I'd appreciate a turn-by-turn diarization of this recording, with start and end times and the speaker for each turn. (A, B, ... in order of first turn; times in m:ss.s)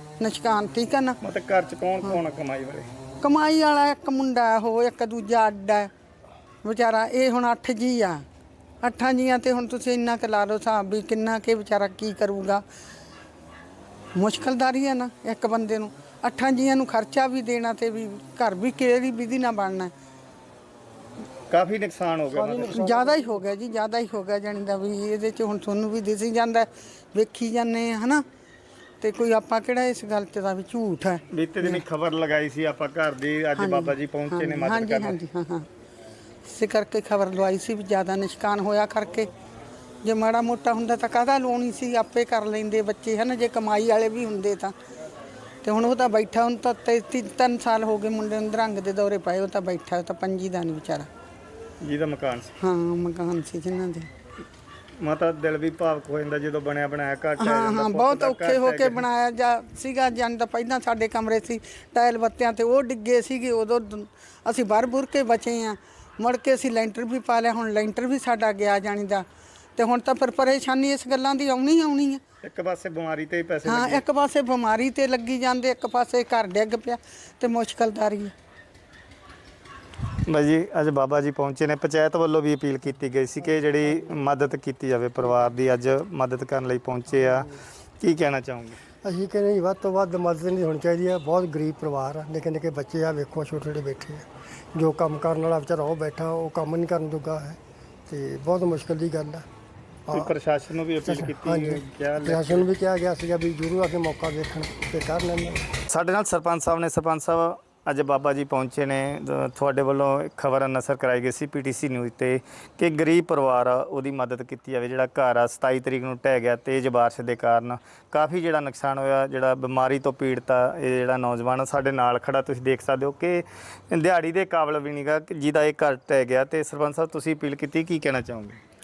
0:00.2-0:01.2 A
0:01.2-0:02.9 B
0:03.2-0:05.9 A
0:06.6-0:08.2 A
0:08.8-0:12.6 A
0:14.1-0:19.9 A
0:21.5-0:22.8 B
0:22.3-0:23.4 C
0:22.6-0:28.2 A
0:29.0-0:31.8 A
0:31.3-0:35.2 B
0:33.6-0:35.7 A
0:36.4-0:39.3 A
0:40.0-0:44.7 A
0:45.6-0:51.1 A
0:51.8-0:52.5 B
0:52.6-0:54.1 A
0:55.0-0:59.0 B
0:57.4-1:12.2 A
1:12.4-1:14.0 B
1:13.6-1:18.3 A
1:20.2-1:27.5 B
1:28.0-1:28.8 B
1:29.0-1:39.4 C
1:40.1-1:42.7 B
1:41.0-1:45.7 C
1:45.9-2:08.6 B